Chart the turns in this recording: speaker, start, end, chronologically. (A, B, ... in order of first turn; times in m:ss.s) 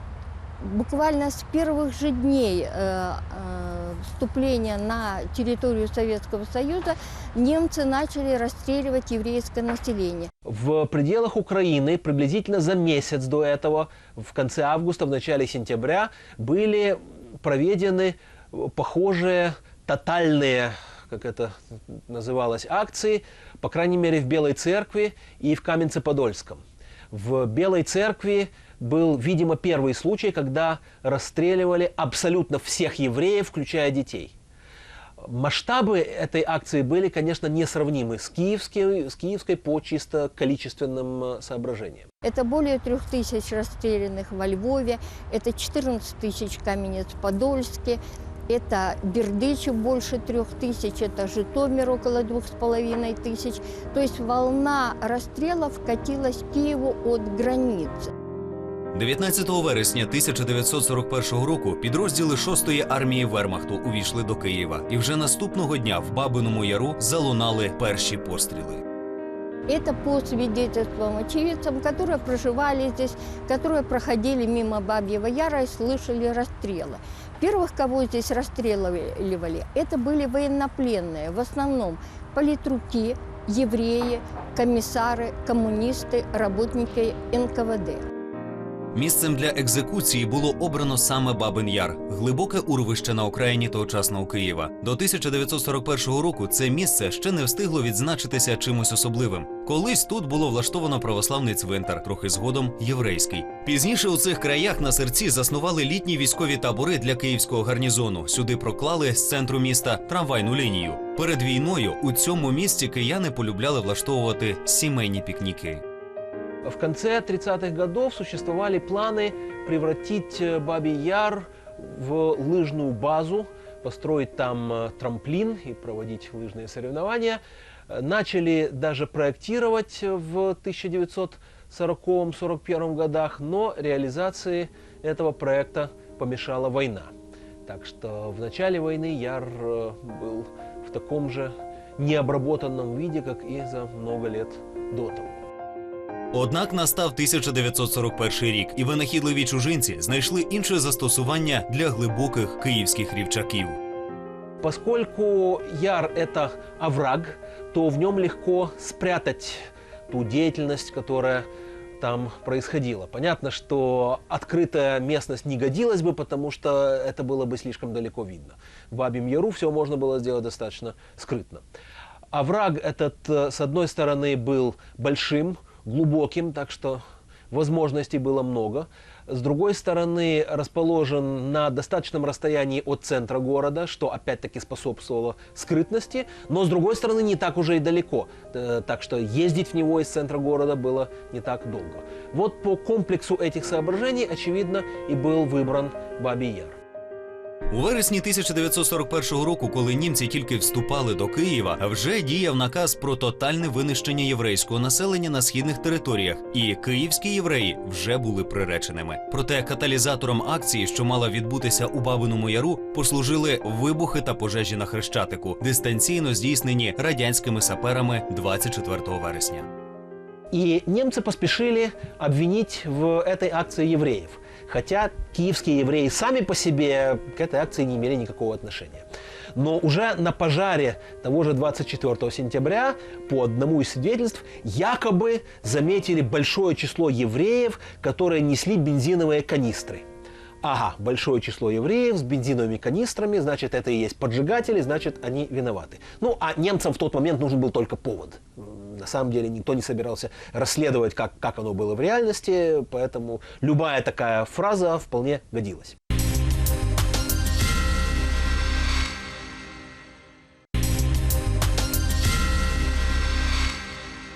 0:00.6-0:10.3 A
0:10.4-0:34.3 B
0:35.2-0:42.1 B
0:42.2-0:58.1 A
0:58.9-1:08.8 C
1:09.7-1:28.1 A
1:28.9-1:55.8 C
1:56.6-2:17.1 B
2:17.7-2:25.4 B
2:26.3-2:33.8 C
2:34.6-2:41.5 B
2:42.0-2:51.6 B
2:52.3-3:16.8 B
3:17.7-3:39.7 C
3:40.5-4:00.0 B
4:00.6-4:16.0 B